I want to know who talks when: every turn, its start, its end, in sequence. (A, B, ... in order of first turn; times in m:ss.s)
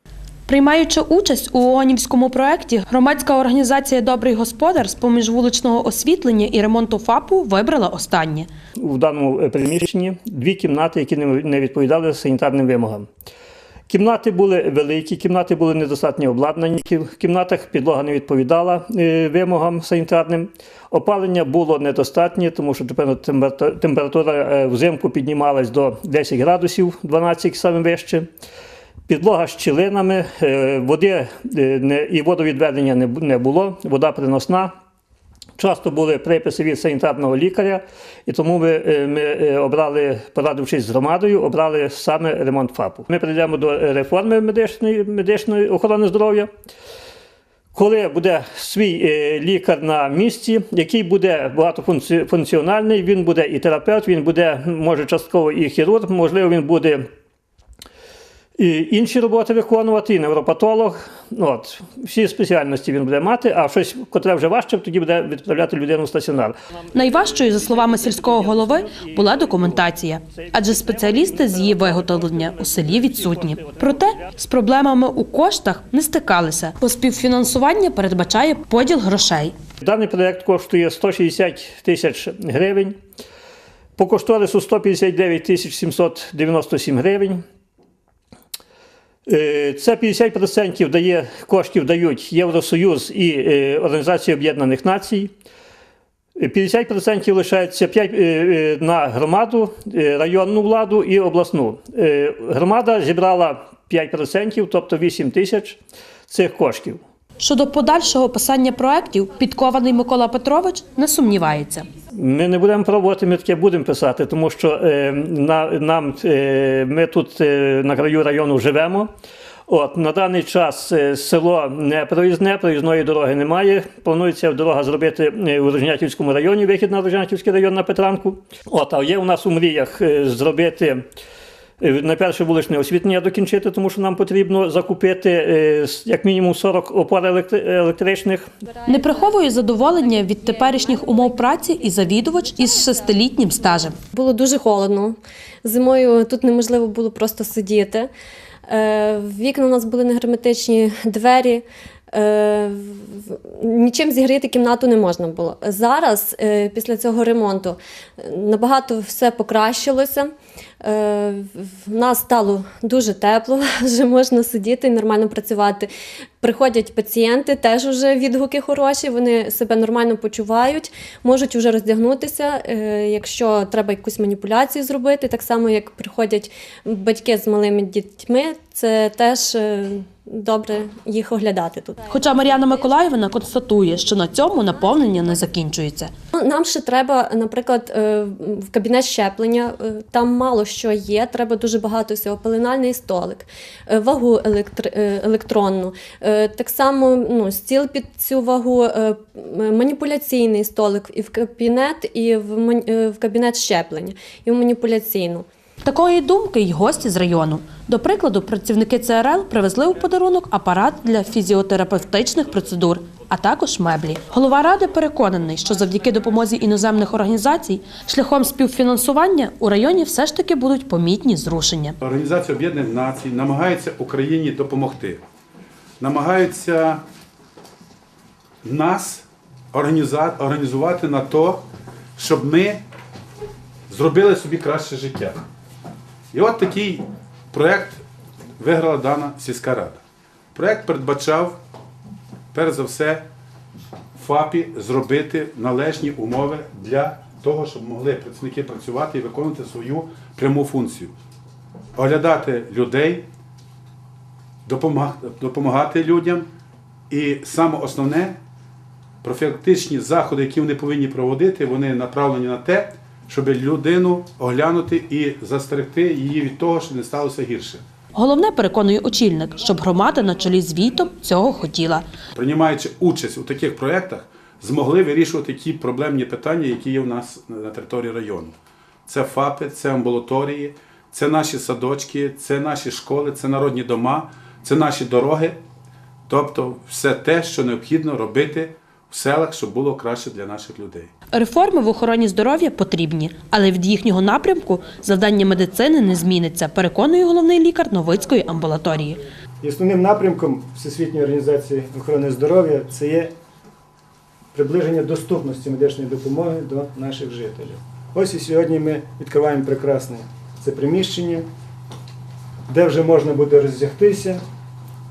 0:00.5-0:08.5 A
0:08.8-0:13.1 B
0:13.9-0:28.3 B
0:29.1-0:34.7 B
0:35.6-0:46.5 B
0:47.8-0:57.0 B
0:58.6-1:06.6 B
1:06.9-1:19.6 A
1:07.3-1:09.8 B
1:10.5-1:13.8 B
1:19.8-1:23.0 B
1:24.0-1:27.4 B
1:29.3-1:35.3 B
1:36.4-1:47.0 B
1:47.4-1:51.9 A
1:52.1-1:59.1 B
1:59.7-2:11.0 B
2:11.8-2:18.5 B
2:18.9-2:24.0 A
2:20.3-2:21.7 C
2:22.5-2:22.8 C
2:24.1-2:28.1 C
2:28.7-2:40.3 C
2:40.8-2:45.9 C
2:46.4-3:02.4 C
3:02.1-3:06.1 A
3:06.3-3:25.4 C
3:25.8-3:42.0 A
3:42.0-3:45.2 D
3:46.0-3:47.0 D
3:48.6-3:51.6 D
3:52.2-3:52.8 D
3:53.9-3:55.4 D
3:56.3-3:58.0 D
3:58.6-4:00.0 D
4:00.6-4:01.6 D
4:02.5-4:03.3 D
4:04.2-4:11.1 D
4:12.0-4:13.3 D
4:14.7-4:16.5 D
4:17.1-4:18.4 D
4:19.2-4:27.8 D
4:28.1-4:32.1 A
4:32.3-4:38.6 D
4:39.1-4:45.6 D
4:46.3-4:51.1 D
4:51.3-4:59.2 A
4:59.6-5:03.3 E
5:04.5-5:11.5 E
5:12.7-5:14.4 E